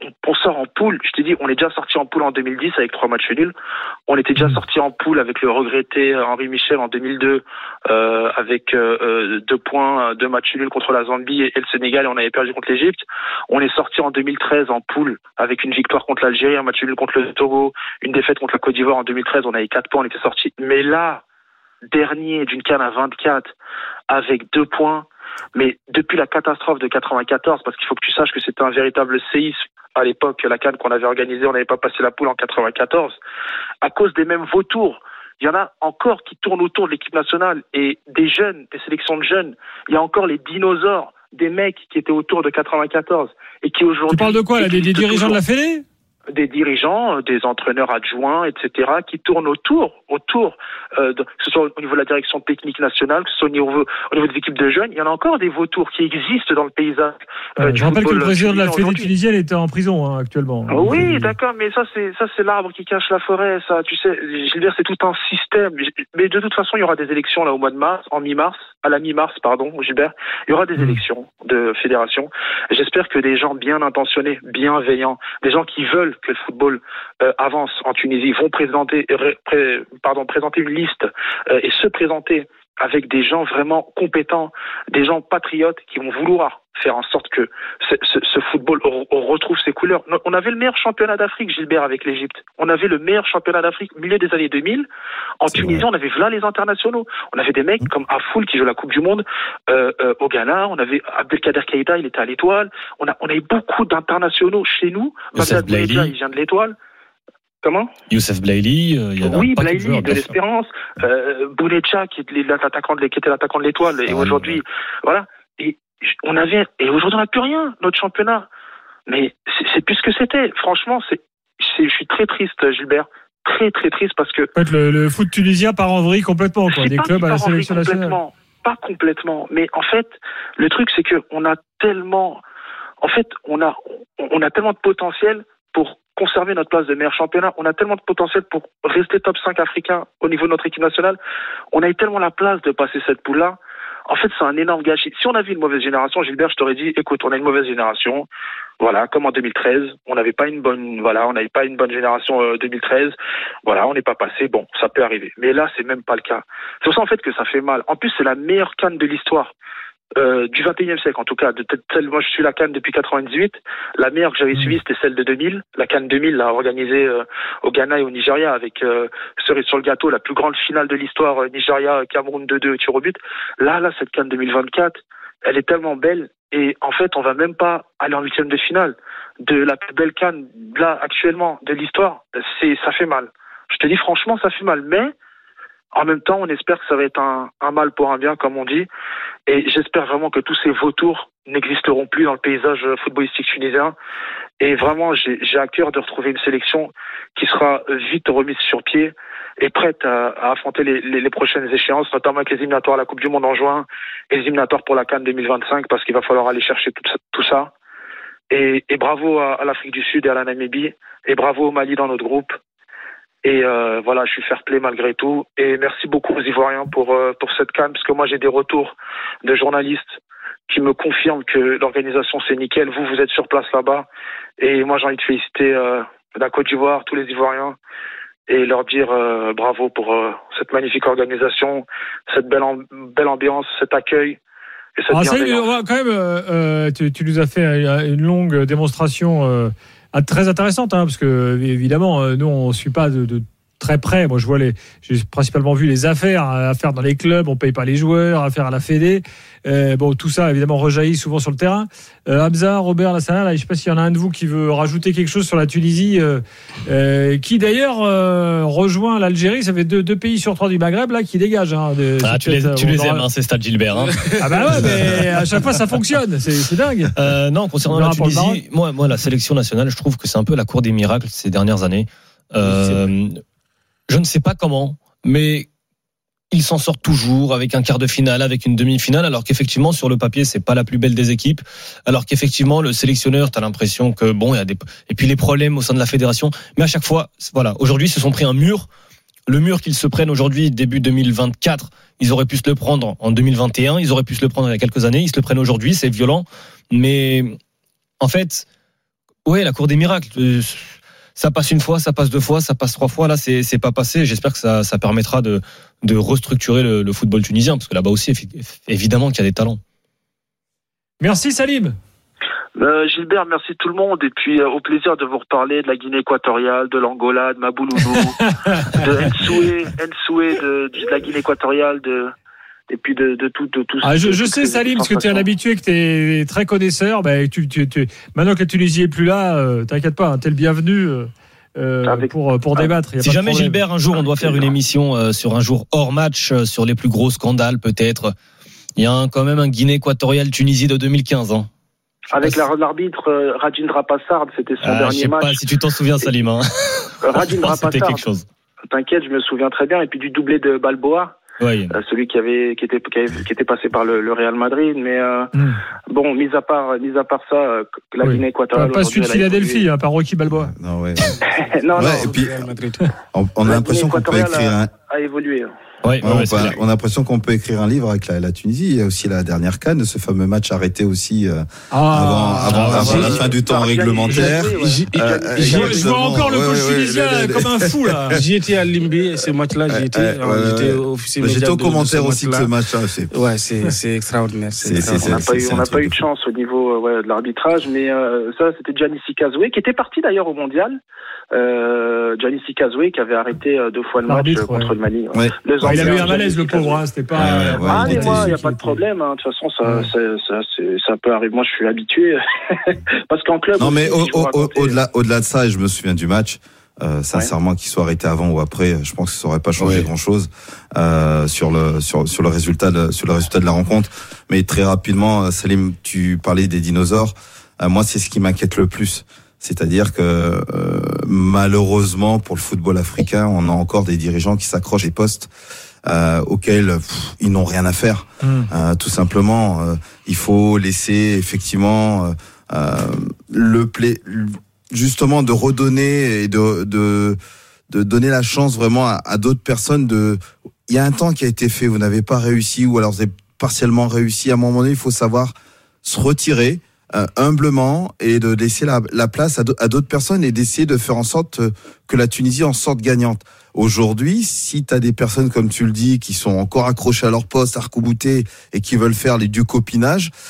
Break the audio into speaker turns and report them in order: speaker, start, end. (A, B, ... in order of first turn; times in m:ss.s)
0:00.2-0:03.5 A
0:04.1-0:21.2 A
0:21.9-0:23.5 A
0:24.1-0:33.2 A
0:33.8-0:45.4 A
0:44.1-0:45.8 B
0:46.3-0:59.1 A
0:57.6-1:01.3 B
1:00.7-1:34.9 A
1:10.8-1:11.0 B
1:35.4-1:46.8 A
1:35.5-1:35.8 C
1:45.3-1:46.1 D
1:47.6-1:47.9 A
1:48.1-1:50.3 D
1:49.2-1:58.5 A
1:54.1-1:54.6 C
1:59.1-2:04.5 A
2:04.6-2:08.2 B
2:06.7-2:12.4 A
2:13.0-2:21.2 A
2:21.7-2:28.3 A
2:28.8-2:33.1 A
2:33.6-2:39.5 A
2:40.2-3:05.1 A
3:05.9-3:08.9 A
3:09.5-3:14.0 A
3:14.6-3:27.7 A
3:28.5-3:32.6 A
3:33.4-3:44.1 A
3:44.6-3:47.8 A
3:48.5-3:54.4 A
3:55.0-3:55.7 A
3:55.1-4:23.3 B
4:22.2-4:24.2 D
4:24.0-4:25.6 E
4:24.4-4:27.1 B
4:24.7-4:25.2 D
4:27.2-4:33.4 D
4:27.8-4:28.6 B
4:32.6-4:33.1 E
4:34.1-4:35.7 D
4:36.5-4:48.9 D
4:49.5-4:57.6 D
4:58.2-4:58.6 D
4:59.5-5:09.8 D
5:11.2-5:12.0 B
5:12.8-5:18.4 A
5:18.1-5:19.0 B
5:18.9-5:22.3 A
5:22.9-5:25.5 A
5:24.0-5:33.8 B
5:32.0-5:32.9 A
5:33.2-5:38.4 D
5:34.4-5:34.7 A
5:39.0-5:41.7 D
5:42.3-5:45.6 A
5:44.8-5:48.4 D
5:47.2-5:48.3 A
5:48.9-5:51.4 A
5:51.6-5:51.9 D
5:51.9-5:55.5 A
5:55.6-5:55.8 B
5:56.1-5:59.8 A
5:58.2-6:00.7 B
6:00.5-6:01.3 C
6:01.7-6:02.2 A
6:01.9-6:03.1 E
6:02.0-6:02.6 C
6:03.3-6:04.9 C
6:03.6-6:05.7 A
6:06.0-6:06.8 D
6:06.2-6:18.3 C
6:11.9-6:13.3 B
6:12.6-6:13.4 D
6:12.9-6:13.5 E
6:13.2-6:16.1 A
6:14.2-6:14.6 B
6:14.5-6:16.4 E
6:15.8-6:18.4 B
6:18.3-6:22.8 E
6:19.9-6:23.3 C
6:23.3-6:25.8 E
6:24.8-6:26.2 C
6:25.2-6:31.0 A
6:31.5-6:37.0 A
6:34.2-6:35.0 B
6:35.3-6:36.4 C
6:35.8-6:39.0 B
6:37.4-6:38.6 C
6:37.8-6:45.0 A
6:43.8-7:05.5 C
6:49.8-6:50.1 D
7:06.0-7:17.4 C
7:08.4-7:08.7 B
7:17.9-7:25.5 C
7:26.0-7:40.3 C